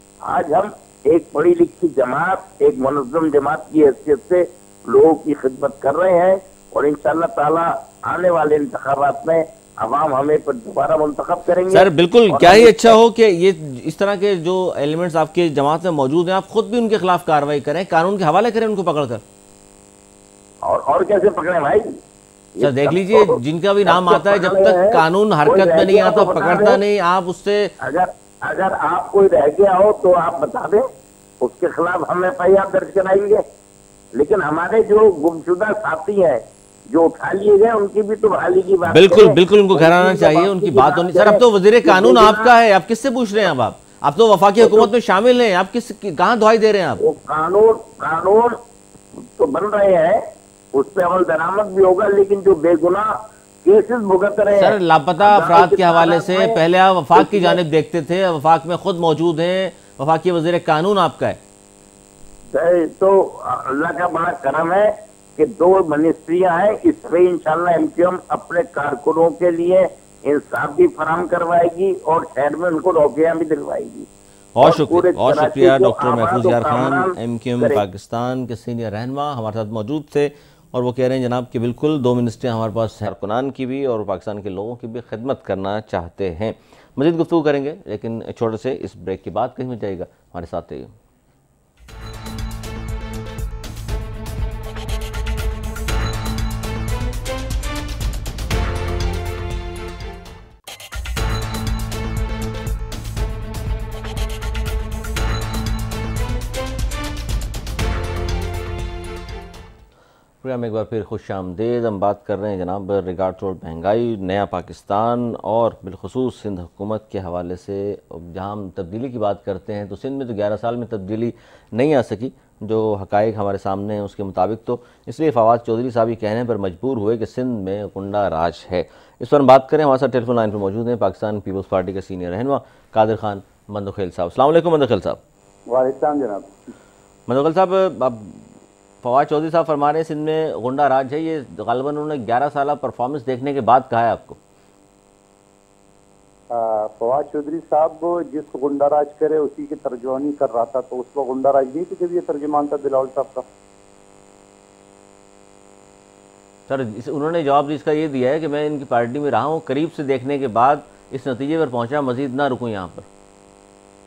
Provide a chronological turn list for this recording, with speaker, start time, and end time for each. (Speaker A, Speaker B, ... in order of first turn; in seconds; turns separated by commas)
Speaker A: 0.2-12.9, Speaker B: 11.7-19.2, Speaker A: 20.6-21.9, Speaker A: 22.6-26.8, Speaker B: 22.6-27.7, Speaker A: 27.8-30.8, Speaker A: 31.4-33.4, Speaker A: 34.1-42.5, Speaker B: 38.9-47.0, Speaker A: 44.6-44.9, Speaker A: 47.0-48.6, Speaker A: 49.4-56.6, Speaker B: 54.5-61.4, Speaker A: 57.1-57.6, Speaker A: 62.5-74.1, Speaker B: 74.5-90.9, Speaker A: 74.6-77.8, Speaker B: 110.4-135.2, Speaker C: 135.7-136.6, Speaker B: 137.3-138.4, Speaker B: 139.0-144.4, Speaker C: 146.5-153.4, Speaker B: 156.7-163.1